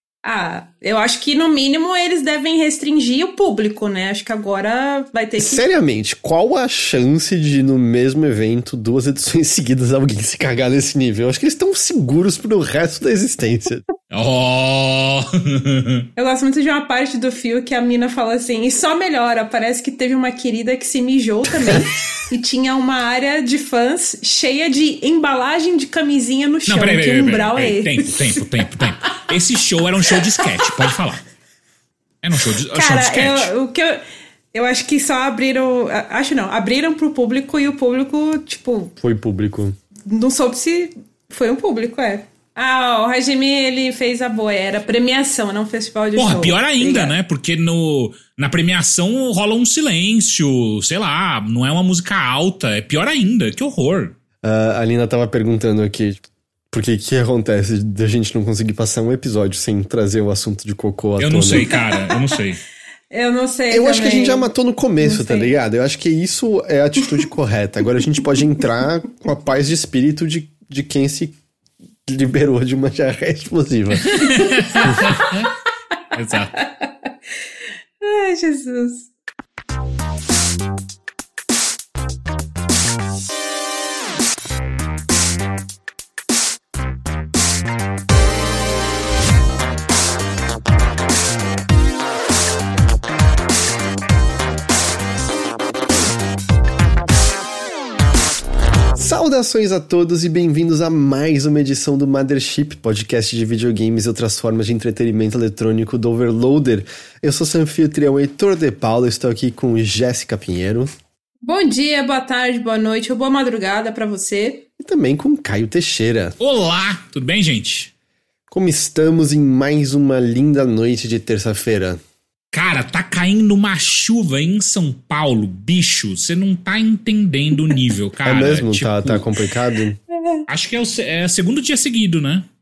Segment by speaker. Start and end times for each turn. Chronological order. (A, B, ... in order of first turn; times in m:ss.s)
0:00.2-0:05.6 A
0:05.4-0:13.8 B
0:14.1-0:16.1 C
0:16.2-0:29.3 A
0:26.7-0:31.2 C
0:30.2-0:30.8 A
0:32.2-0:33.5 C
0:32.7-0:34.0 A
0:34.5-0:38.9 A
0:39.0-0:39.8 B
0:40.1-0:47.1 A
0:46.2-0:54.2 C
0:54.4-1:01.8 B
1:01.2-1:02.6 C
1:01.7-1:02.4 A
1:03.1-1:05.5 A
1:03.7-1:11.3 B
1:12.1-1:14.3 B
1:14.0-1:15.5 C
1:14.8-1:15.3 A
1:16.1-1:16.5 C
1:16.6-1:17.1 A
1:18.0-1:19.1 A
1:39.0-1:50.9 B
1:51.4-1:54.6 A
1:54.8-1:56.4 B
1:56.4-1:57.9 C
1:58.5-2:02.0 B
2:02.5-2:09.3 C
2:08.2-2:10.0 B
2:10.5-2:12.5 C